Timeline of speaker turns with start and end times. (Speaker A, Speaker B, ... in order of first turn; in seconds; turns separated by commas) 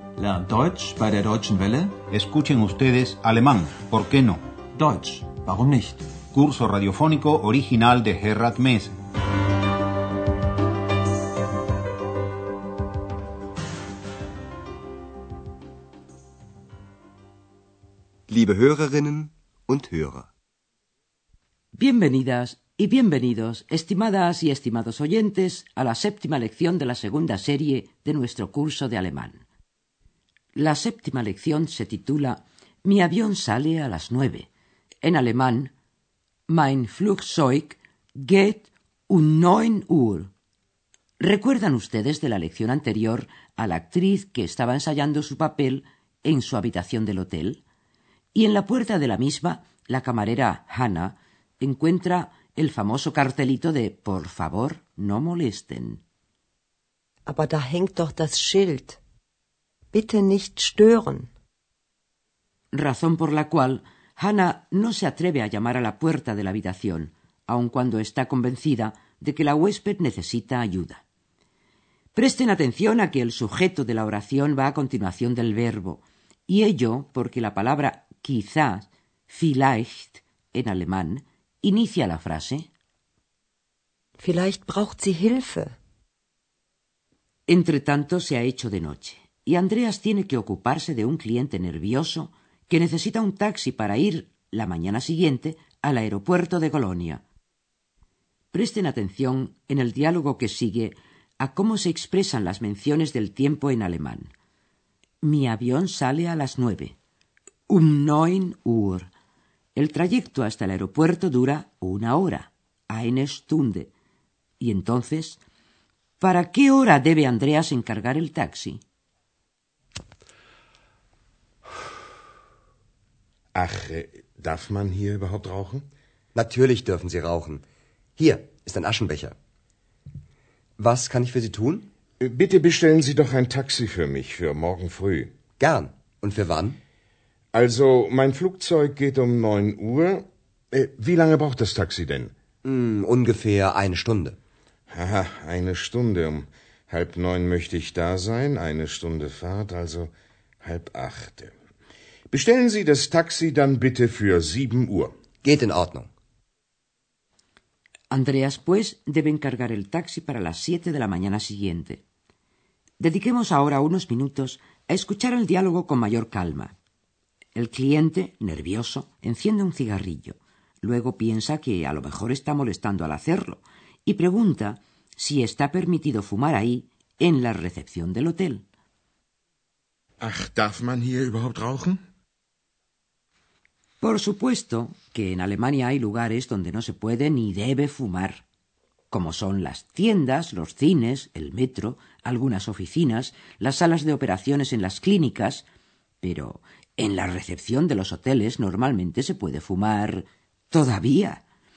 Speaker A: 0.2-2.0, Speaker B: 2.1-4.4, Speaker A: 4.8-6.1, Speaker B: 6.3-9.0, Speaker C: 18.3-20.3, Speaker D: 21.8-29.4, Speaker D: 30.6-34.5, Speaker D: 35.0-35.7, Speaker D: 36.5-40.3, Speaker D: 41.2-47.6, Speaker D: 48.3-56.0, Speaker E: 57.3-59.0, Speaker E: 59.9-61.3, Speaker D: 62.7-71.0, Speaker D: 72.2-82.7, Speaker E: 84.2-85.8, Speaker D: 87.5-97.2, Speaker D: 98.5-104.3, Speaker D: 105.2-107.0, Speaker D: 107.7-109.1, Speaker D: 109.8-113.9, Speaker D: 114.6-115.4, Speaker D: 116.2-118.8, Speaker F: 123.5-125.8, Speaker C: 126.3-127.6, Speaker C: 128.2-129.3, Speaker C: 130.8-131.9, Speaker F: 132.2-135.3, Speaker C: 135.6-136.8, Speaker F: 137.5-142.3, Speaker C: 142.7-144.4, Speaker F: 144.9-150.1, Speaker F: 150.6-151.5, Speaker F: 152.3-155.1, Speaker C: 155.4-156.1, Speaker D: 158.1-162.0, Speaker D: 163.0-166.8, Speaker D: 167.6-178.7, Speaker F: 180.2-182.0, Speaker D: 184.0-188.4, Speaker D: 189.1-195.7, Speaker D: 196.2-201.4